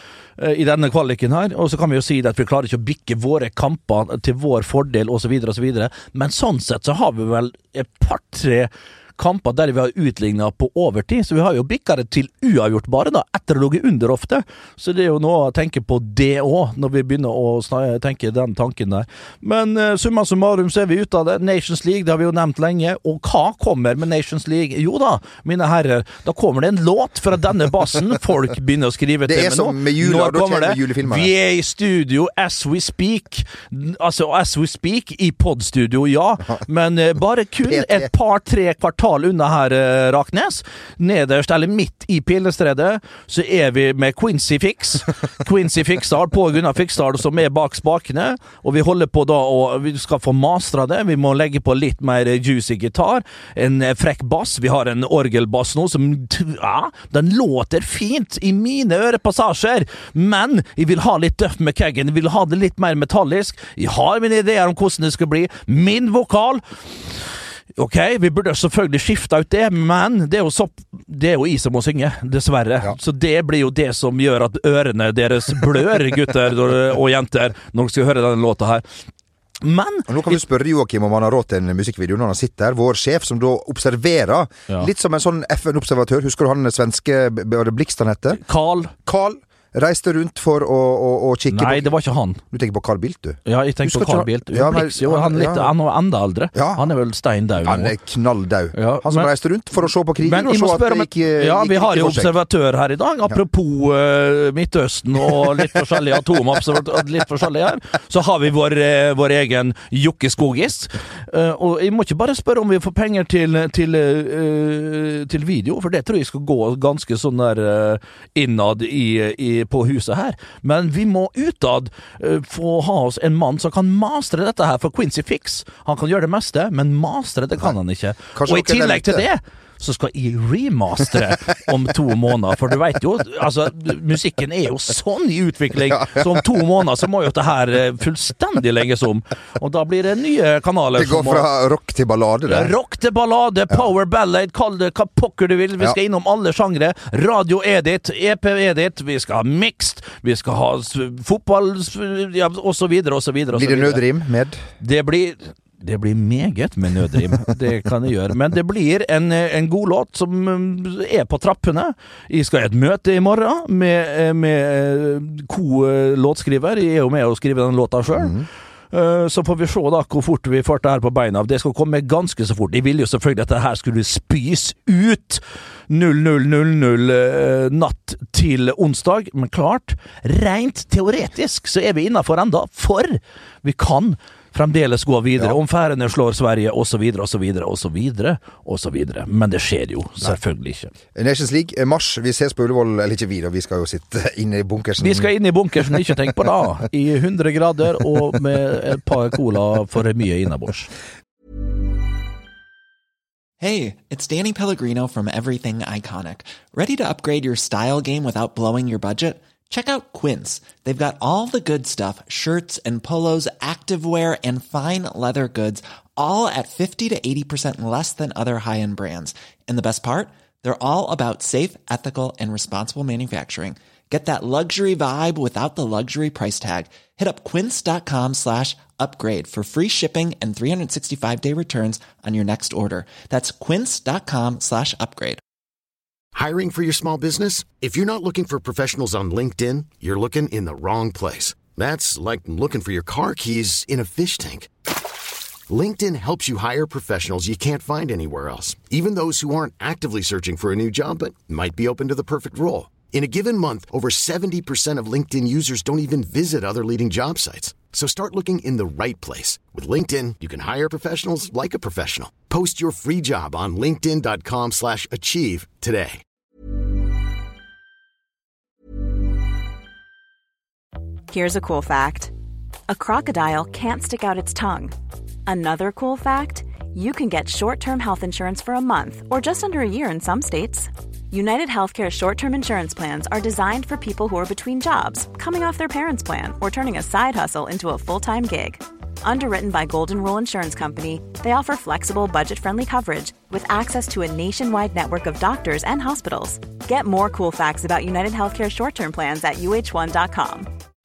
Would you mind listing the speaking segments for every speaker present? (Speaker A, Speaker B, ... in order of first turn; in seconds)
Speaker A: 0.4-78.8, 79.6-80.4, 88.4-88.9, 91.5-92.4, 93.5-97.9, 98.7-99.3, 100.2-141.5, 142.5-154.0, 154.8-190.9, 195.0-200.9
Speaker B: 29.2-31.3, 37.6-38.1, 80.1-88.4, 89.0-91.9, 92.5-95.7, 96.5-96.8, 97.6-102.3, 128.3-129.2, 135.9-136.4, 140.9-142.7, 153.5-154.6, 168.2-168.5, 191.1-195.3
Speaker C: 203.6-235.4
Speaker D: 236.3-244.7, 245.7-266.2
Speaker E: 271.3-272.3, 272.9-274.9, 275.4-300.7